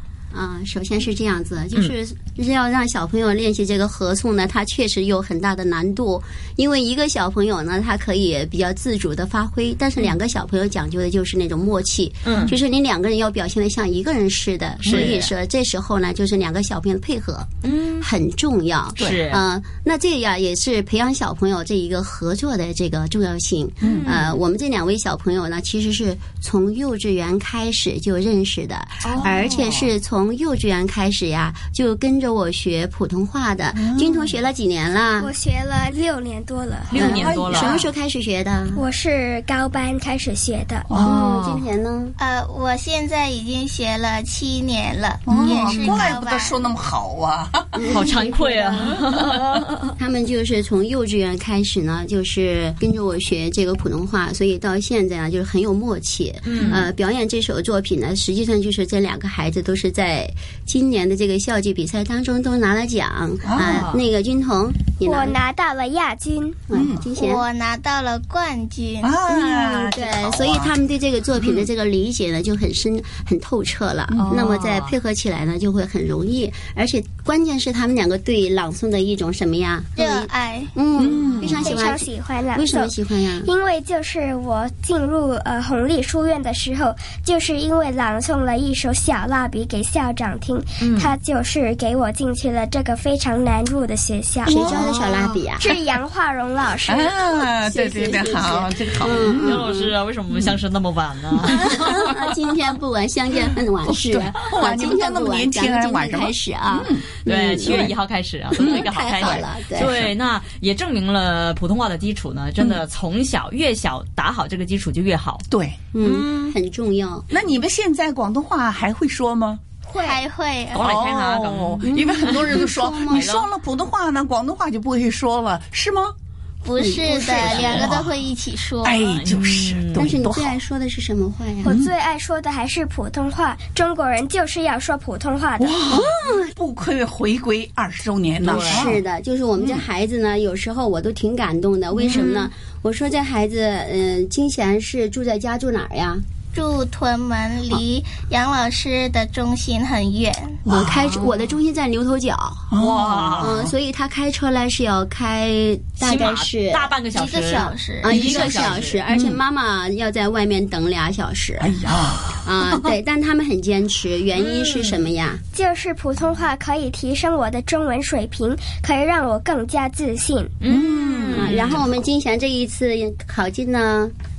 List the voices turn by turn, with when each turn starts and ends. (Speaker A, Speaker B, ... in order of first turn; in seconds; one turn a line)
Speaker A: 0.3-17.5
Speaker B: 12.2-12.6
Speaker C: 14.8-15.2
Speaker B: 14.9-15.3
Speaker B: 17.6-18.1
Speaker A: 18.0-35.3
Speaker B: 19.0-19.4
Speaker C: 23.8-24.2
Speaker B: 23.8-24.4
Speaker B: 29.0-29.6
Speaker C: 29.2-29.9
Speaker C: 33.7-34.4
Speaker D: 35.2-37.0
Speaker B: 36.9-37.8
Speaker A: 36.9-38.8
Speaker C: 36.9-37.9
Speaker D: 38.7-40.9
Speaker C: 40.9-41.1
Speaker B: 40.9-41.6
Speaker A: 41.0-42.1
Speaker E: 42.2-46.6
Speaker C: 45.2-47.9
Speaker A: 47.7-49.0
Speaker B: 47.9-49.9
Speaker A: 50.0-65.4
Speaker B: 56.4-56.9
Speaker C: 63.4-63.9
Speaker B: 63.5-64.0
Speaker D: 65.0-66.6
Speaker A: 66.7-67.4
Speaker C: 66.7-67.1
Speaker E: 67.2-69.2
Speaker C: 69.0-70.7
Speaker A: 69.3-83.5
Speaker C: 71.4-71.7
Speaker C: 74.1-74.4
Speaker B: 74.2-75.0
Speaker E: 80.0-80.7
Speaker C: 81.0-81.6
Speaker B: 81.4-81.6
Speaker D: 81.6-94.8
Speaker B: 90.8-91.1
Speaker A: 94.4-95.7
Speaker C: 94.5-95.3
Speaker D: 95.6-98.1
Speaker C: 96.8-99.6
Speaker A: 97.7-99.9
Speaker B: 99.3-102.2
Speaker A: 101.5-107.9
Speaker C: 103.5-107.0
Speaker B: 107.2-115.4
Speaker A: 108.6-110.1
Speaker C: 108.6-109.4
Speaker C: 115.5-115.8
Speaker A: 115.9-117.3
Speaker B: 116.0-116.5
Speaker C: 117.3-119.6
Speaker D: 119.9-120.2
Speaker E: 119.9-120.9
Speaker B: 120.7-123.5
Speaker C: 120.8-126.1
Speaker A: 121.8-123.3
Speaker E: 126.6-129.1
Speaker A: 126.7-128.0
Speaker C: 127.2-128.2
Speaker C: 128.8-130.6
Speaker B: 129.0-130.1
Speaker A: 129.9-131.8
Speaker D: 131.6-135.9
Speaker C: 131.7-131.9
Speaker C: 135.6-139.0
Speaker A: 135.9-136.4
Speaker B: 138.4-138.9
Speaker A: 138.5-146.2
Speaker C: 139.6-139.8
Speaker B: 141.9-142.5
Speaker E: 146.5-150.6
Speaker C: 150.7-151.0
Speaker A: 150.7-152.7
Speaker B: 151.1-151.5
Speaker C: 152.7-153.7
Speaker B: 152.8-153.6
Speaker A: 153.4-156.9
Speaker B: 156.0-159.0
Speaker E: 157.1-158.2
Speaker A: 157.5-161.8
Speaker C: 158.2-159.4
Speaker C: 161.6-162.9
Speaker A: 162.4-165.4
Speaker B: 164.3-165.1
Speaker D: 165.5-170.5
Speaker B: 170.6-171.9
Speaker C: 170.7-171.7
Speaker A: 171.3-174.1